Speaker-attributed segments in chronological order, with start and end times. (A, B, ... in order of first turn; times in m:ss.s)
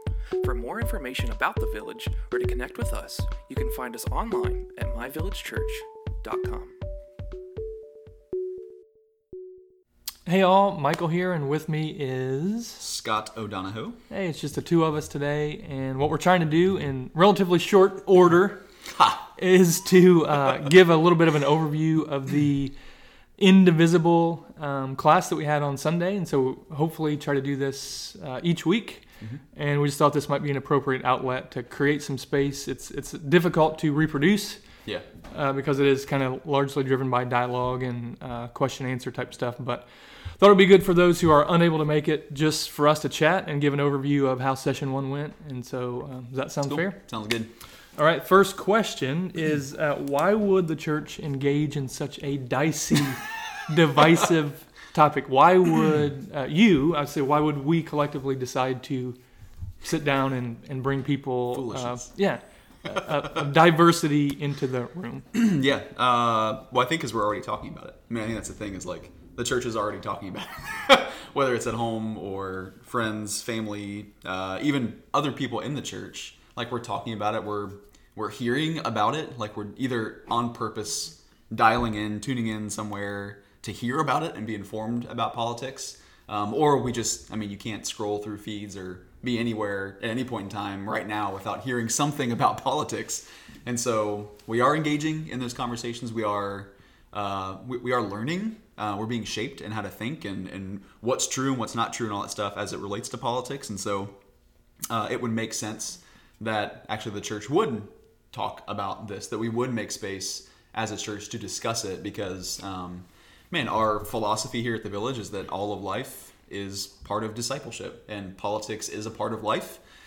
0:00.4-0:06.8 A
0:10.3-0:12.8 B
0:12.8-0:14.0 C
0:14.1-0:18.6 B
0:18.9-0:19.3 C
0:19.4-0:22.8 B
0:23.4-0:34.6 B
0:35.3-0:47.0 B
0:46.6-0:47.5 C
0:48.0-0:59.2 B
0:59.8-1:05.3 B
1:01.5-1:02.1 C
1:05.3-1:44.2 C
1:44.9-1:59.8 C